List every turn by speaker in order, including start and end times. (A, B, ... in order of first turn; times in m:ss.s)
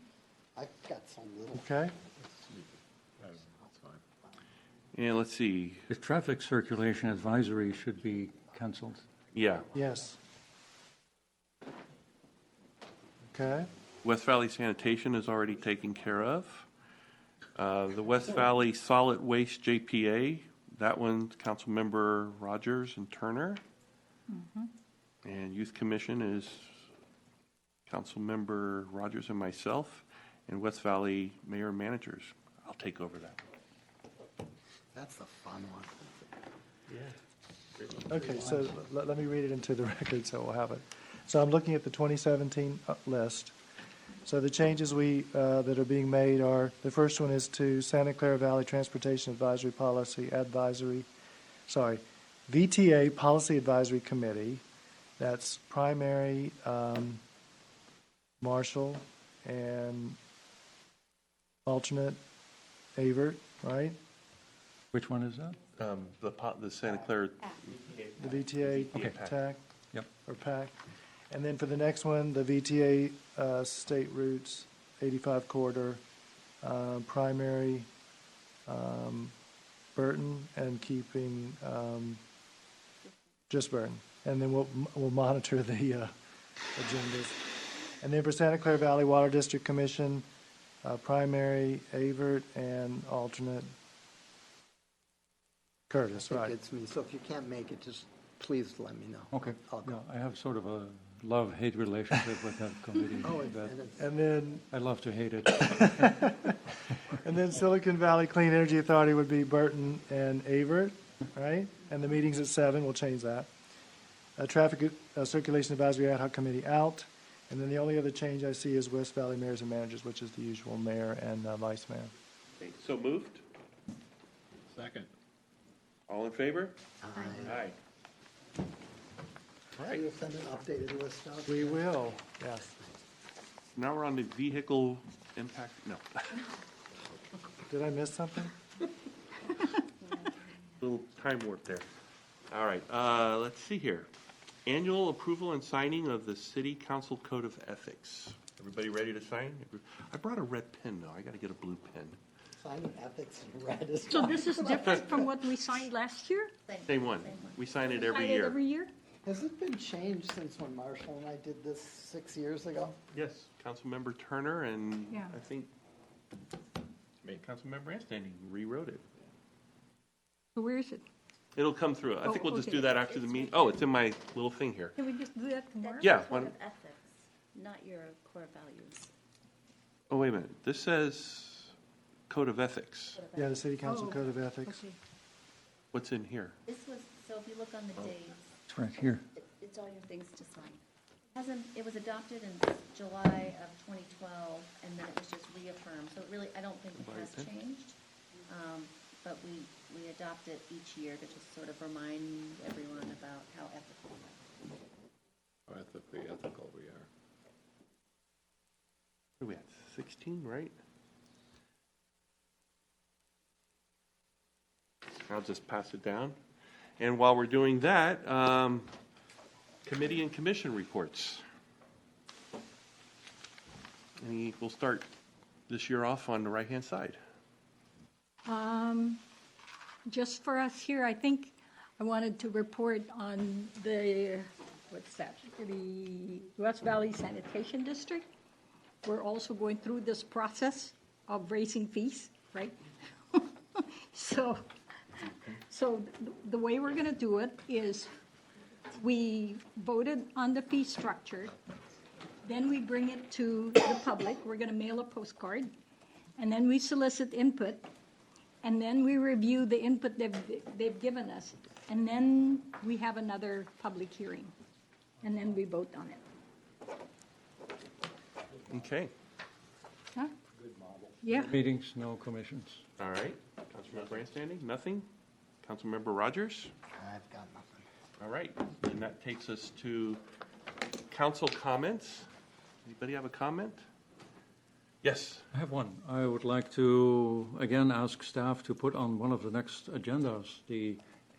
0:00.6-0:01.7 A
0:01.5-0:02.0 B
0:02.3-0:04.0 A
0:04.9-0:05.9 C
0:05.9-0:09.1 D
0:09.3-0:09.7 C
0:09.7-0:10.2 B
0:13.3-0:13.7 B
0:14.0-0:16.7 C
0:17.6-0:23.6 C
0:24.3-0:24.7 E
0:25.2-0:26.8 C
0:27.9-0:33.4 C
0:34.9-0:36.2 A
0:36.9-0:37.2 C
0:38.1-0:43.6 B
0:38.2-0:38.6 A
0:44.2-0:51.1 B
0:51.7-0:54.6 B
0:55.2-0:57.2 B
0:58.4-1:00.2 B
1:01.7-1:02.2 B
1:03.0-1:04.0 B
1:04.9-1:05.6 D
1:05.8-1:09.4 C
1:08.2-1:09.6 B
1:10.2-1:10.8 B
1:11.3-1:16.0 B
1:16.6-1:17.9 B
1:18.7-1:19.3 B
1:20.0-1:22.2 B
1:23.5-1:26.1 B
1:26.8-1:27.4 B
1:28.0-1:30.3 B
1:30.8-1:33.7 B
1:35.9-1:36.6 B
1:36.2-1:40.0 A
1:39.3-1:43.8 D
1:43.3-1:44.1 A
1:44.0-1:44.6 B
1:44.7-1:46.3 D
1:45.7-1:46.5 B
1:47.2-1:53.5 B
1:54.4-2:02.1 B
2:02.6-2:03.4 C
2:04.7-2:05.1 A
2:06.1-2:06.8 C
2:07.1-2:07.6 A
2:07.2-2:07.5 F
2:07.3-2:07.8 C
2:09.8-2:10.0 C
2:09.9-2:11.9 A
2:11.4-2:12.7 B
2:13.8-2:16.4 C
2:17.7-2:18.5 B
2:20.0-2:20.6 F
2:20.8-2:21.9 C
2:22.5-2:24.1 C
2:24.7-2:32.2 C
2:32.6-2:34.6 A
2:34.1-2:36.5 E
2:34.6-2:35.2 F
2:34.8-2:35.2 C
2:36.7-2:38.4 F
2:36.9-2:38.6 C
2:37.9-2:38.9 E
2:39.3-2:43.0 A
2:43.1-2:45.7 C
2:45.1-2:45.4 E
2:47.2-2:49.1 C
2:50.6-2:51.0 E
2:51.6-2:55.0 C
2:52.2-2:52.9 E
2:52.3-2:53.9 F
2:55.0-2:56.3 E
2:55.8-2:59.1 F
2:56.0-2:56.6 C
3:00.1-3:01.7 C
3:02.3-3:03.2 C
3:03.2-3:03.7 F
3:03.4-3:04.8 B
3:03.8-3:05.0 E
3:05.9-3:06.6 C
3:06.7-3:08.5 F
3:08.7-3:09.2 D
3:09.3-3:10.8 F
3:11.4-3:18.0 F
3:17.0-3:17.6 C
3:18.5-3:24.4 F
3:25.7-3:27.1 A
3:29.4-3:30.8 C
3:35.3-3:36.4 C
3:37.0-3:38.9 C
3:39.8-3:41.4 C
3:44.2-3:45.1 C
3:45.7-3:47.2 C
3:48.5-3:49.2 E
3:50.1-3:58.3 E
3:59.0-4:04.6 E
4:05.2-4:08.1 E
4:08.9-4:11.5 E
4:12.4-4:15.7 E
4:16.4-4:17.9 E
4:18.6-4:24.5 E
4:25.2-4:26.2 E
4:28.7-4:29.1 C
4:31.2-4:31.5 E
4:31.3-4:32.8 D
4:33.0-4:35.1 C
4:35.6-4:36.7 C
4:36.9-4:37.9 A
4:38.2-4:40.2 C
4:41.1-4:42.3 C
4:42.8-4:43.8 C
4:45.0-4:45.4 C
4:45.5-4:51.0 D